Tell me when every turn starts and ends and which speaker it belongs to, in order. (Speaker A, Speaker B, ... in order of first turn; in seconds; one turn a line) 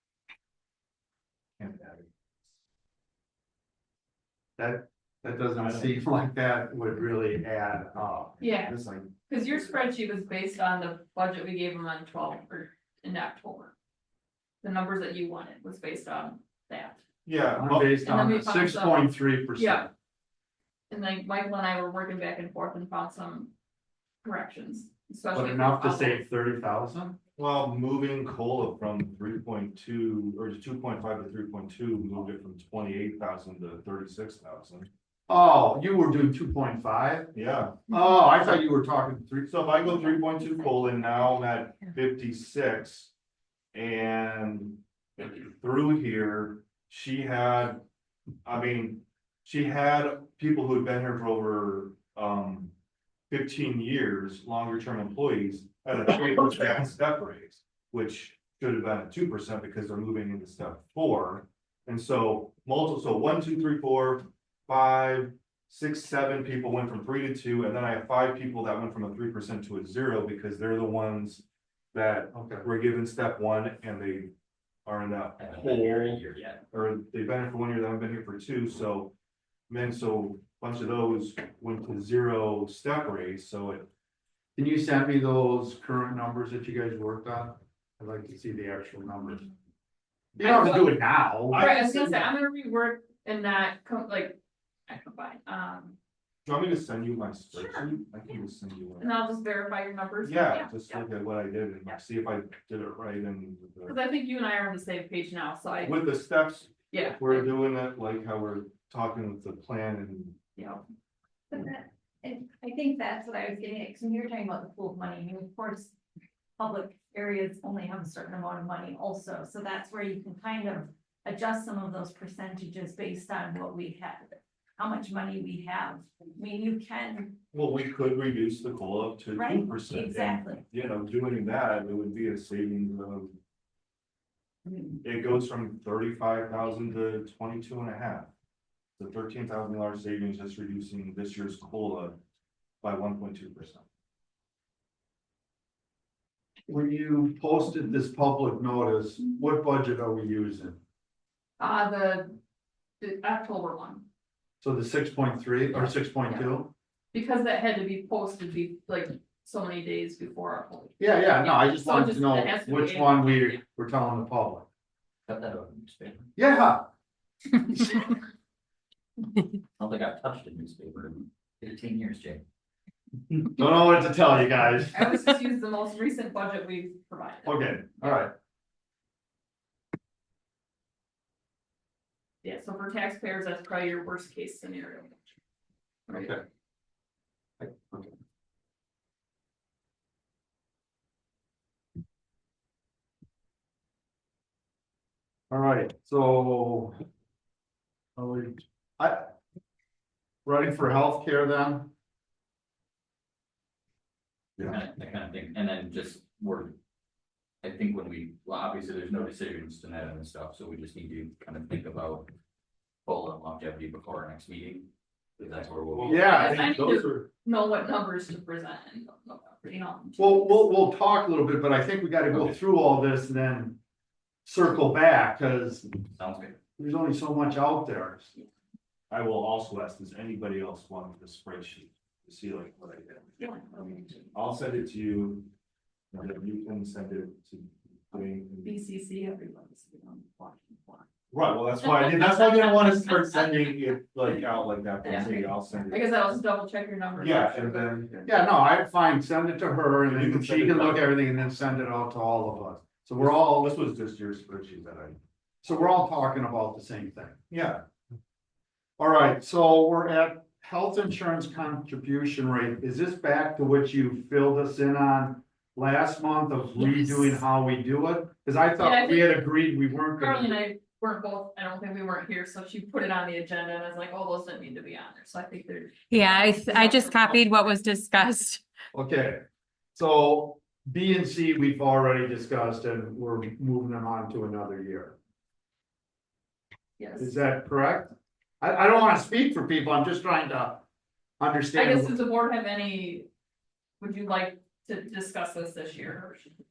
Speaker A: 1.6-2.1
Speaker B: 4.6-8.4
Speaker A: 5.6-6.0
Speaker C: 8.4-8.8
Speaker A: 8.4-9.7
Speaker C: 9.3-13.8
Speaker C: 14.6-17.0
Speaker A: 17.3-18.0
Speaker B: 17.6-19.9
Speaker C: 18.0-19.9
Speaker C: 20.9-23.5
Speaker C: 24.2-26.2
Speaker B: 25.3-27.2
Speaker A: 27.4-34.9
Speaker B: 35.3-37.3
Speaker A: 37.3-37.9
Speaker B: 37.9-39.5
Speaker A: 39.5-43.1
Speaker A: 43.7-47.8
Speaker A: 48.5-52.7
Speaker A: 53.3-74.3
Speaker B: 72.3-72.7
Speaker A: 74.9-79.1
Speaker D: 75.4-76.6
Speaker A: 79.7-83.9
Speaker B: 84.6-89.5
Speaker B: 90.4-91.7
Speaker C: 90.4-91.0
Speaker A: 90.5-90.8
Speaker A: 91.5-92.3
Speaker C: 91.5-96.0
Speaker A: 96.5-99.1
Speaker C: 97.5-97.9
Speaker C: 99.0-101.0
Speaker A: 100.2-104.0
Speaker C: 103.9-106.1
Speaker A: 105.8-110.4
Speaker C: 106.9-107.5
Speaker C: 110.6-110.8
Speaker E: 111.5-115.9
Speaker E: 116.6-127.3
Speaker A: 127.5-133.4
Speaker E: 129.3-130.6
Speaker A: 135.0-138.3
Speaker A: 139.0-142.2
Speaker A: 142.8-143.8
Speaker B: 146.7-150.8
Speaker C: 151.6-152.4
Speaker C: 153.0-154.1
Speaker B: 154.6-156.7
Speaker C: 157.1-163.6
Speaker B: 161.0-164.7
Speaker D: 165.3-166.3
Speaker B: 166.4-166.8
Speaker D: 169.8-172.4
Speaker B: 173.5-175.0
Speaker C: 174.9-178.3
Speaker B: 177.5-178.3
Speaker C: 182.4-185.3
Speaker C: 186.1-186.4
Speaker B: 186.2-186.4
Speaker B: 187.6-188.2
Speaker B: 195.5-197.0
Speaker B: 198.2-199.3
Speaker B: 200.4-201.9
Speaker D: 204.6-206.8
Speaker D: 207.6-212.3
Speaker D: 213.1-216.6
Speaker A: 215.4-217.3
Speaker B: 216.0-217.0
Speaker C: 216.2-220.5
Speaker B: 220.2-223.8
Speaker D: 222.3-222.6
Speaker B: 224.4-225.9
Speaker D: 226.1-226.6
Speaker B: 226.8-228.3
Speaker A: 229.1-235.5
Speaker C: 233.4-234.2
Speaker A: 236.1-238.8
Speaker C: 238.6-241.1
Speaker A: 241.3-246.1
Speaker C: 241.8-243.8
Speaker C: 245.0-245.4
Speaker D: 245.1-245.3
Speaker C: 245.9-248.3
Speaker A: 247.2-248.1
Speaker B: 248.3-253.7
Speaker A: 250.1-251.1
Speaker A: 253.2-255.2
Speaker B: 255.6-257.4
Speaker A: 257.5-257.8
Speaker B: 259.0-270.6
Speaker C: 268.8-269.4
Speaker C: 270.1-277.4
Speaker F: 276.1-278.6
Speaker B: 278.9-279.4
Speaker B: 279.9-285.1
Speaker C: 287.0-287.4
Speaker B: 287.2-290.8
Speaker B: 291.4-292.2
Speaker C: 291.7-293.3
Speaker C: 294.0-296.5